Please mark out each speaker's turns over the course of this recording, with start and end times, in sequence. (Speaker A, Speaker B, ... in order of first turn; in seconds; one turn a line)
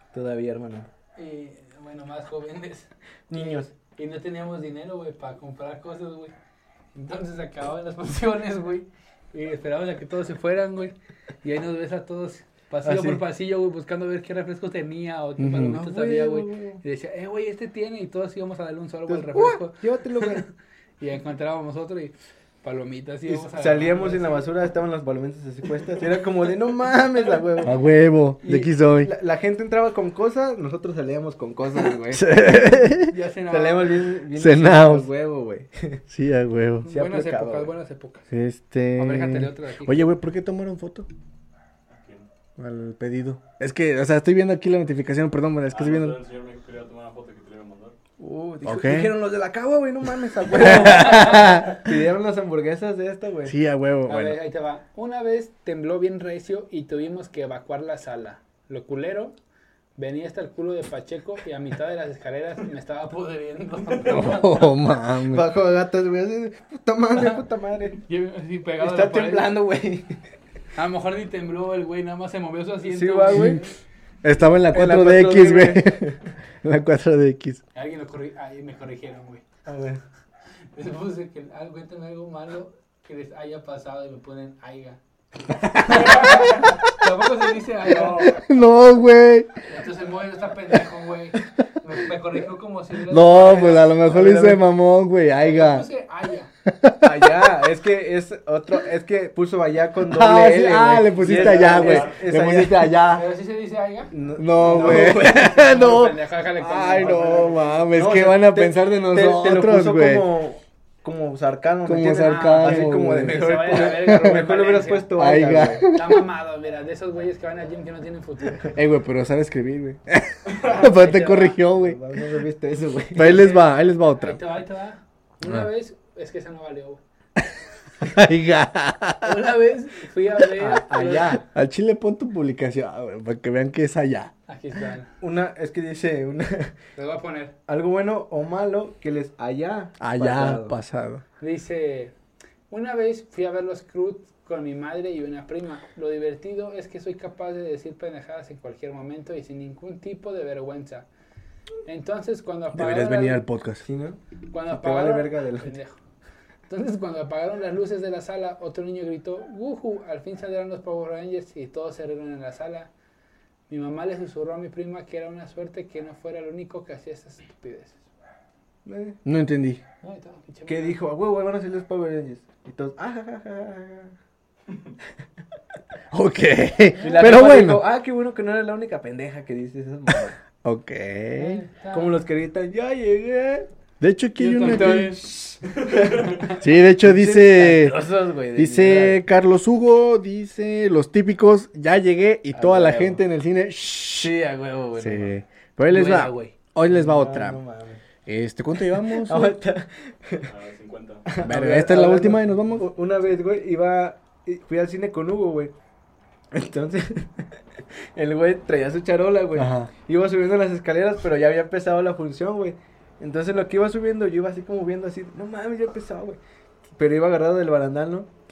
Speaker A: 0.1-0.9
Speaker B: 1.2-6.3
Speaker A: 3.3-3.7
Speaker B: 6.9-24.5
Speaker A: 12.8-13.2
Speaker C: 15.4-15.8
Speaker A: 15.6-16.8
Speaker A: 19.1-20.4
Speaker A: 23.3-27.7
Speaker C: 27.6-29.1
Speaker A: 28.4-32.3
Speaker C: 32.1-33.1
Speaker B: 33.1-34.0
Speaker A: 33.5-36.0
Speaker C: 34.4-35.1
Speaker C: 36.1-36.9
Speaker B: 36.9-38.3
Speaker A: 36.9-37.7
Speaker C: 38.3-41.1
Speaker B: 39.0-40.1
Speaker D: 41.9-42.3
Speaker C: 42.6-46.2
Speaker D: 45.7-48.0
Speaker A: 48.2-53.5
Speaker C: 48.6-49.1
Speaker C: 50.5-51.9
Speaker B: 50.7-51.6
Speaker C: 53.5-54.4
Speaker B: 54.1-59.4
Speaker B: 60.0-64.7
Speaker C: 64.0-65.5
Speaker A: 65.3-68.0
Speaker B: 68.0-69.5
Speaker A: 68.8-70.2
Speaker B: 70.7-73.8
Speaker A: 72.9-73.6
Speaker C: 73.3-73.6
Speaker C: 74.2-76.0
Speaker A: 74.7-76.3
Speaker C: 76.6-77.6
Speaker B: 77.7-79.5
Speaker A: 79.7-80.0
Speaker B: 80.7-85.0
Speaker C: 85.6-86.8
Speaker B: 85.8-88.4
Speaker C: 88.0-89.5
Speaker B: 89.7-93.9
Speaker C: 93.1-95.9
Speaker A: 93.3-94.6
Speaker B: 95.4-96.5
Speaker C: 96.6-97.5
Speaker A: 97.0-102.9
Speaker C: 100.0-103.3
Speaker B: 101.5-101.9
Speaker B: 103.1-107.9
Speaker A: 104.1-105.7
Speaker C: 104.4-110.3
Speaker A: 107.9-115.9
Speaker C: 111.8-113.4
Speaker B: 112.1-115.1
Speaker C: 114.1-114.4
Speaker C: 115.2-116.2
Speaker B: 115.8-118.7
Speaker C: 118.6-122.2
Speaker B: 120.8-121.6
Speaker A: 121.8-123.4
Speaker C: 123.1-124.4
Speaker B: 123.2-127.0
Speaker C: 128.0-129.4
Speaker B: 129.2-131.4
Speaker A: 130.6-131.4
Speaker C: 131.3-134.3
Speaker B: 134.5-135.1
Speaker A: 135.2-136.7
Speaker B: 136.9-137.5
Speaker A: 137.7-140.8
Speaker C: 140.0-141.2
Speaker B: 141.4-142.1
Speaker B: 142.7-151.1
Speaker B: 151.8-153.4
Speaker C: 152.7-153.8
Speaker A: 153.8-154.2
Speaker B: 154.5-156.0
Speaker A: 154.7-155.7
Speaker B: 156.7-162.9
Speaker B: 163.7-168.0
Speaker A: 168.8-169.2
Speaker C: 169.2-169.8
Speaker B: 170.0-171.0
Speaker A: 170.7-174.1
Speaker C: 176.1-177.9
Speaker B: 177.0-177.4
Speaker A: 177.0-180.4
Speaker C: 180.6-181.6
Speaker B: 181.3-182.2
Speaker A: 181.9-183.7
Speaker C: 184.0-185.6
Speaker B: 184.4-185.2
Speaker A: 184.6-189.2
Speaker D: 185.9-186.4
Speaker C: 186.5-188.0
Speaker C: 188.6-194.3
Speaker A: 192.5-193.2
Speaker A: 194.2-195.3
Speaker C: 195.0-197.6
Speaker B: 195.9-196.6
Speaker A: 196.9-198.0
Speaker C: 198.2-199.6
Speaker A: 199.0-200.5
Speaker D: 200.5-201.3
Speaker A: 201.3-205.7
Speaker C: 201.4-202.8
Speaker A: 206.5-207.5
Speaker A: 208.2-216.4
Speaker C: 209.6-209.9
Speaker A: 217.0-218.3